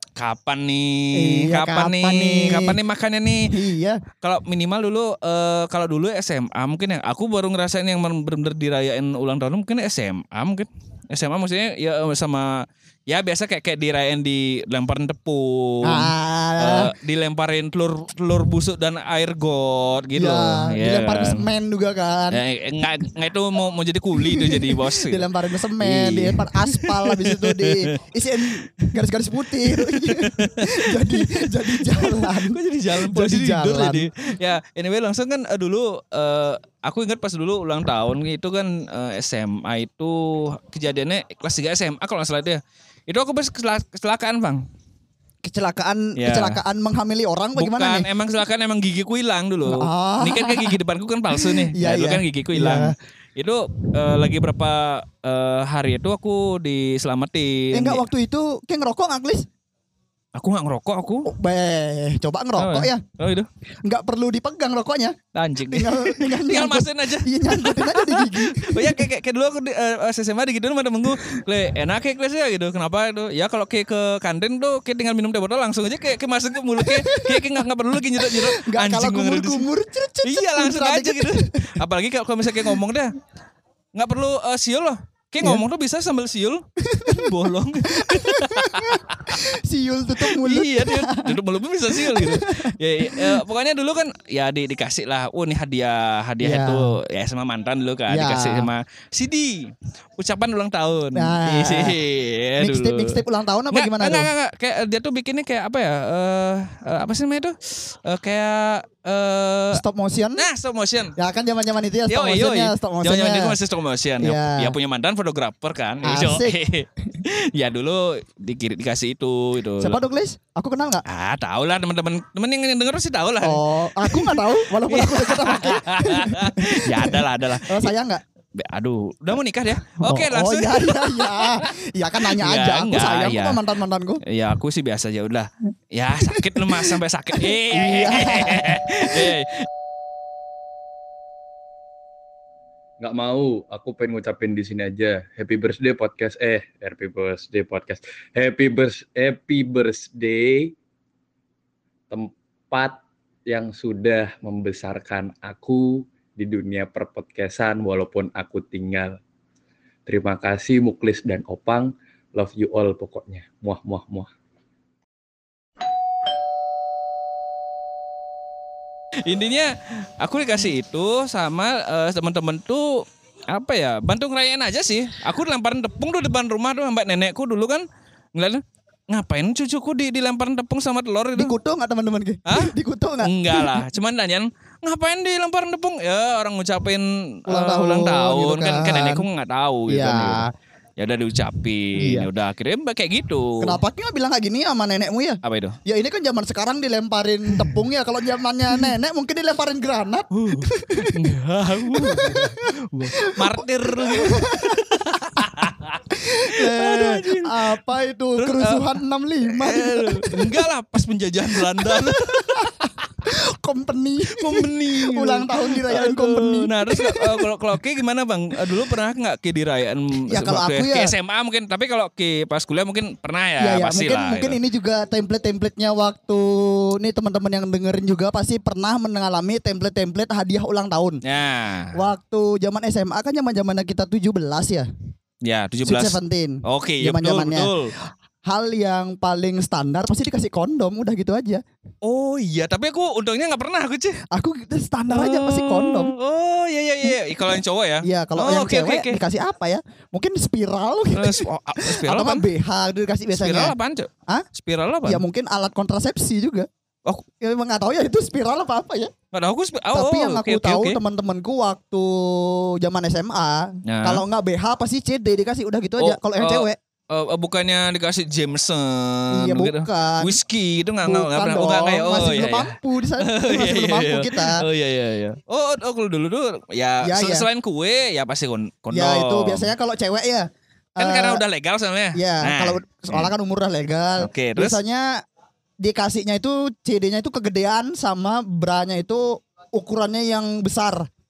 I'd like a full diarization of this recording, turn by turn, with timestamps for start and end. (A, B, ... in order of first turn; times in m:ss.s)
0:00.2-0:03.5 A
0:01.2-0:02.8 B
0:03.4-0:04.0 B
0:04.2-0:21.4 A
0:15.8-0:16.9 B
0:20.2-0:22.4 B
0:22.3-0:27.9 A
0:24.2-0:34.1 B
0:29.7-0:44.6 A
0:45.4-0:48.1 B
0:46.2-0:46.6 A
0:47.5-0:58.0 A
0:49.7-0:50.8 B
0:51.4-0:52.9 B
0:57.7-0:59.4 B
1:00.3-1:01.3 A
1:01.2-1:03.0 B
1:02.6-1:03.5 A
1:03.8-1:05.2 B
1:05.3-1:19.6 A
1:05.7-1:09.0 B
1:16.8-1:17.5 B
1:18.2-1:21.6 B
1:20.2-1:23.1 A
1:23.9-1:29.5 A
1:26.9-1:27.2 B
1:28.0-1:31.2 B
1:30.2-1:49.8 A
1:32.0-1:33.4 B
1:36.4-1:36.9 B
1:38.1-1:38.7 B
1:41.1-1:42.0 B
1:42.6-1:44.3 B
1:49.7-1:50.4 B
1:50.4-1:51.1 A
1:51.2-1:53.5 B
1:52.1-2:00.0 A
1:54.2-1:54.7 B
1:56.0-1:56.6 B
1:59.8-2:01.0 B
2:01.1-2:07.9 A
2:03.4-2:07.2 B
2:07.7-2:08.2 B
2:08.6-2:11.6 A
2:10.0-2:14.2 B
2:12.4-2:13.6 A
2:14.3-2:19.6 A
2:16.4-2:16.9 B
2:17.7-2:19.3 B
2:23.0-2:30.7 C
2:32.1-2:39.2 C
2:40.0-2:44.3 C
2:49.2-2:57.8 A
2:58.4-3:01.5 A
3:01.4-3:03.8 B
3:02.5-3:10.4 A
3:07.5-3:09.2 B
3:09.9-3:10.5 B
3:11.0-3:13.8 A
3:12.0-3:12.3 B
3:13.6-3:21.3 B
3:15.4-3:15.8 A
3:17.5-3:17.8 A
3:20.3-3:27.8 A
3:21.8-3:22.6 B
3:23.2-3:25.4 B
3:26.3-3:30.6 B
3:28.4-3:28.9 A
3:29.4-3:32.9 A
3:31.7-3:32.7 B
3:33.6-3:37.5 B
3:34.3-3:44.6 A
3:40.3-3:41.1 B
3:43.6-3:51.2 B
3:51.2-3:51.9 A
3:51.9-3:54.9 B
3:55.4-3:57.9 A
3:55.8-3:57.7 B
3:58.4-4:01.6 B
4:02.0-4:04.2 A
4:04.3-4:06.1 B
4:05.1-4:09.2 A
4:07.0-4:13.7 B
4:11.1-4:12.4 A
4:13.3-4:15.2 A
4:15.0-4:16.7 B
4:17.4-4:19.1 B
4:19.3-4:21.0 A
4:19.9-4:26.8 B
4:23.9-4:24.2 A
4:26.0-4:39.7 A
4:29.3-4:30.4 B
4:31.0-4:34.6 B
4:37.0-4:37.4 B
4:38.9-4:41.4 B
4:41.0-4:43.3 A
4:42.1-4:45.1 B
4:44.2-4:44.8 A
4:45.8-4:51.1 B